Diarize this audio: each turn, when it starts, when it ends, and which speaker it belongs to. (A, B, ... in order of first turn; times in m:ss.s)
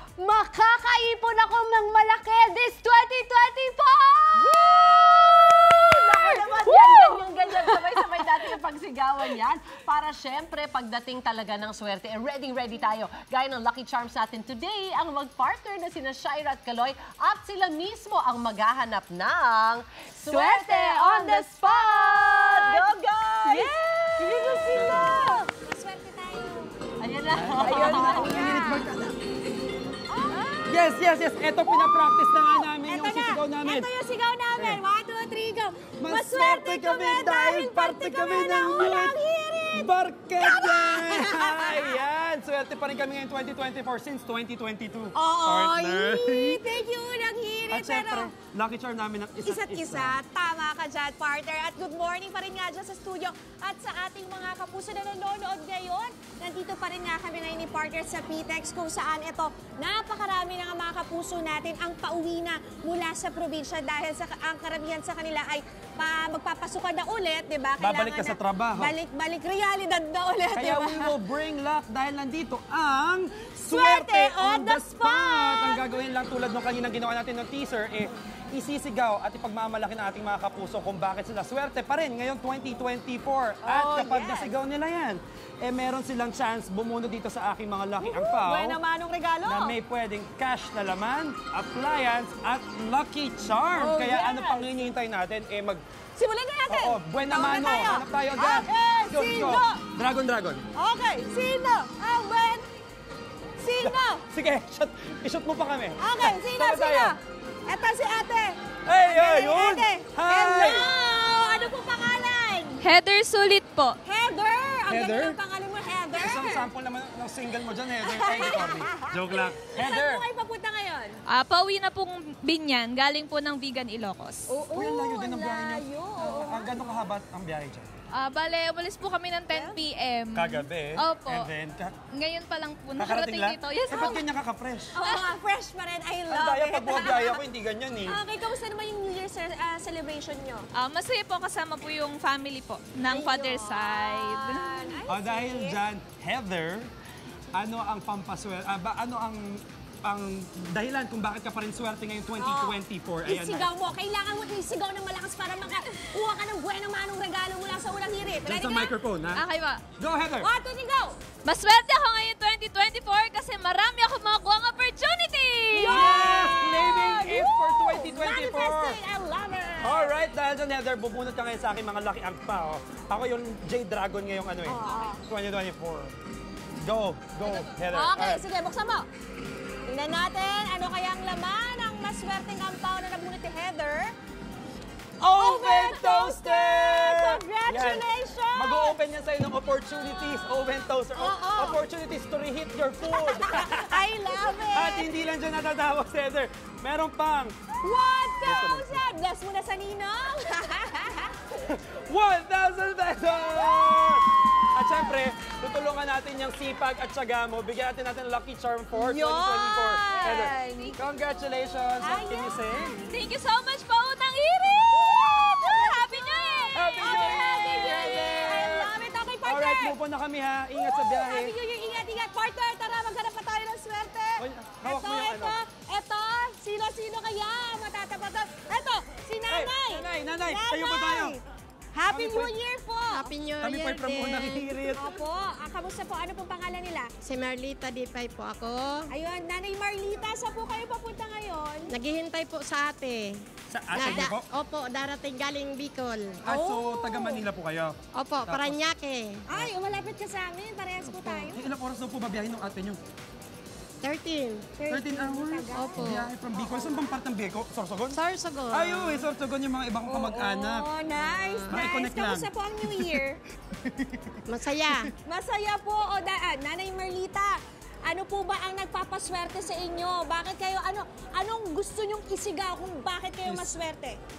0:00.2-0:06.0 A
0:04.4-0:25.2 B
0:06.6-0:07.2 A
0:20.3-0:22.9 A
0:23.5-0:23.7 A
0:23.5-0:26.7 C
0:27.0-0:28.8 B
0:27.4-0:29.1 D
0:27.6-0:28.8 A
0:27.6-0:28.9 C
0:30.1-0:31.0 C
0:30.7-0:33.9 D
0:31.7-0:42.0 C
0:36.0-0:39.2 D
0:39.7-0:46.6 D
0:45.1-0:48.3 C
0:47.7-0:50.2 D
0:49.4-1:11.2 C
1:07.8-1:08.9 D
1:10.5-1:28.8 D
1:13.7-1:16.0 C
1:23.6-1:24.5 C
1:28.0-1:29.8 C
1:29.4-1:35.8 D
1:33.8-1:34.7 C
1:36.2-1:39.8 C
1:36.7-1:40.7 D
1:40.8-1:42.7 C
1:43.6-1:44.2 C
1:43.8-1:47.2 D
1:46.0-1:52.8 C
1:48.9-1:50.9 D
1:52.8-1:54.0 E
1:54.0-1:56.7 C
1:54.9-1:55.4 D
1:56.1-2:00.2 D
1:58.1-2:01.2 C
2:01.3-2:04.5 E
2:04.5-2:07.0 C
2:04.7-2:07.9 D
2:08.1-2:11.5 E
2:09.5-2:09.8 C
2:10.4-2:12.0 D
2:12.1-2:14.2 E
2:13.0-2:15.0 D
2:15.0-2:17.4 C
2:16.3-2:18.2 D
2:18.0-2:20.6 C
2:20.7-2:25.0 E
2:23.1-2:25.8 C
2:25.1-2:26.9 D
2:27.5-2:33.7 D
2:32.4-2:38.9 C
2:38.4-2:39.4 D
2:39.4-2:39.8 E
2:40.0-2:40.5 D
2:40.4-2:41.2 C
2:41.4-2:46.0 E
2:45.7-2:50.2 C
2:45.9-2:49.0 D
2:49.8-2:56.2 D
2:54.6-2:55.2 C
2:56.8-2:58.4 D
2:57.5-2:59.1 C
2:59.9-3:04.1 C
3:05.2-3:14.0 D
3:05.4-3:09.0 C
3:11.2-3:11.8 C
3:13.0-3:15.1 C
3:14.7-3:17.6 D
3:17.8-3:21.4 C
3:18.4-3:19.0 D
3:21.5-3:33.0 D
3:23.5-3:24.2 C
3:28.9-3:31.0 C
3:32.0-3:33.0 C
3:33.1-3:35.1 E
3:35.0-3:40.0 C
3:36.7-3:38.9 D
3:39.4-3:41.5 D
3:40.7-3:51.4 C
3:44.4-3:45.6 D
3:49.5-3:51.4 D
3:52.0-3:53.4 C
3:52.1-3:52.5 D
3:53.1-3:55.0 F
3:53.6-3:55.0 D
3:55.0-3:57.1 C
3:57.2-3:59.1 F
3:59.1-4:01.9 C
4:01.9-4:03.4 F
4:03.7-4:04.5 D
4:03.9-4:06.8 F
4:06.4-4:08.8 D
4:06.7-4:07.4 C
4:08.2-4:09.4 F
4:09.5-4:11.6 C
4:11.1-4:11.5 F
4:11.5-4:13.0 D
4:14.0-4:14.7 F
4:14.8-4:17.2 C
4:14.9-4:20.9 D
4:15.7-4:16.3 F
4:18.1-4:19.3 F
4:20.1-4:23.4 C
4:21.4-4:21.8 F
4:21.7-4:23.2 D
4:23.8-4:25.1 D
4:24.5-4:25.1 F
4:25.2-4:34.2 C